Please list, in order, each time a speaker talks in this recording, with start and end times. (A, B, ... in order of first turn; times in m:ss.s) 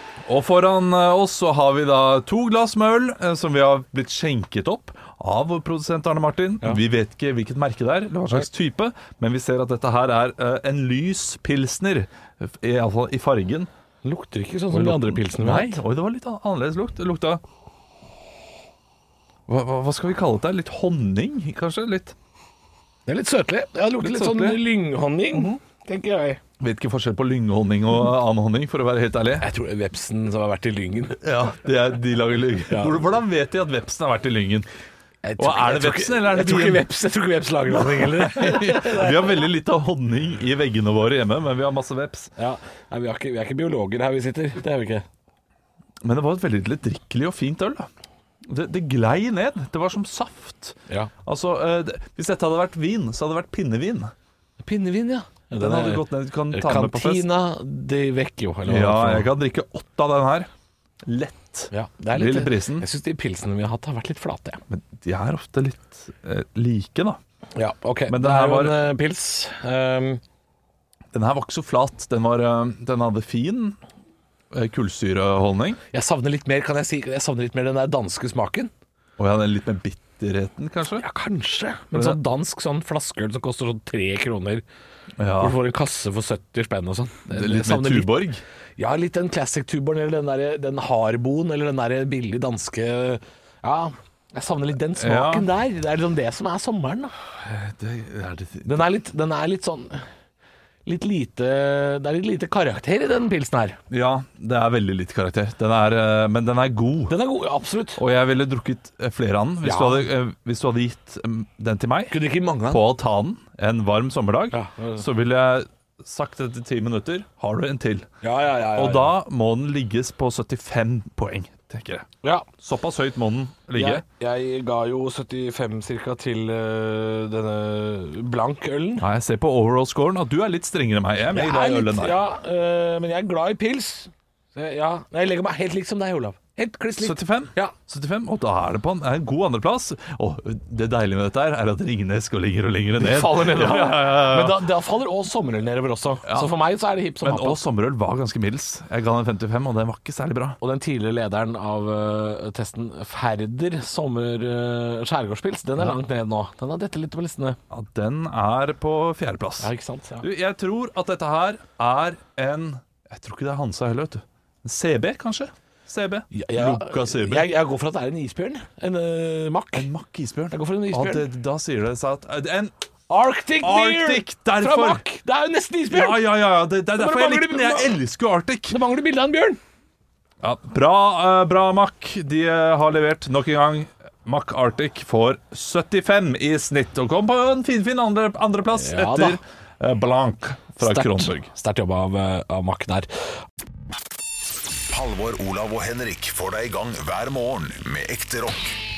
0:00.2-0:13.7 A
0:14.0-0:15.8 B
0:14.7-0:17.4 A
0:19.5-0:22.1 A
0:23.0-0:26.4 B
0:24.0-0:24.6 A
0:25.3-0:25.6 A
0:26.6-0:29.4 A
0:29.4-0:31.2 B
0:31.2-0:34.7 A
0:32.7-0:33.0 B
0:35.2-0:39.4 B
0:35.4-0:36.8 A
0:37.7-0:42.3 A
0:42.4-0:45.0 B
0:46.0-0:47.9 A
0:48.5-0:54.1 A
0:54.6-0:59.3 B
0:55.6-0:57.3 A
0:58.7-1:00.5 A
1:01.0-1:02.8 A
1:01.7-1:04.6 B
1:04.7-1:07.2 A
1:07.5-1:10.2 B
1:08.1-1:08.8 A
1:11.1-1:13.8 A
1:14.5-1:15.8 A
1:15.9-1:18.7 B
1:19.2-1:21.0 A
1:20.9-1:24.6 B
1:21.9-1:22.2 A
1:25.2-1:25.6 A
1:25.4-1:28.2 B
1:27.3-1:28.4 A
1:28.8-1:37.1 B
1:35.0-1:35.5 A
1:37.4-1:38.8 A
1:38.6-1:40.0 B
1:40.8-1:43.8 B
1:43.9-1:47.1 A
1:47.1-1:48.0 B
1:48.0-1:52.2 A
1:49.6-1:50.1 B
1:52.1-1:52.8 B
1:52.7-1:58.1 A
1:54.5-1:55.0 B
1:58.2-1:59.1 B
1:58.7-2:02.1 A
2:02.6-2:04.0 A
2:03.7-2:09.0 B
2:09.0-2:12.2 A
2:11.3-2:17.7 B
2:17.0-2:24.7 A
2:23.0-2:27.6 B
2:27.2-2:30.6 A
2:30.6-2:37.6 B
2:37.7-2:39.7 A
2:39.6-2:40.2 B
2:40.2-2:47.5 A
2:46.3-2:49.9 B
2:49.7-2:52.7 A
2:50.5-2:51.3 B
2:53.1-2:56.2 B
2:53.6-2:55.0 A
2:55.9-2:58.8 A
2:57.0-2:58.0 B
2:58.7-2:59.6 B
3:00.4-3:11.5 A
3:08.7-3:09.4 B
3:10.8-3:13.1 B
3:14.9-3:18.8 C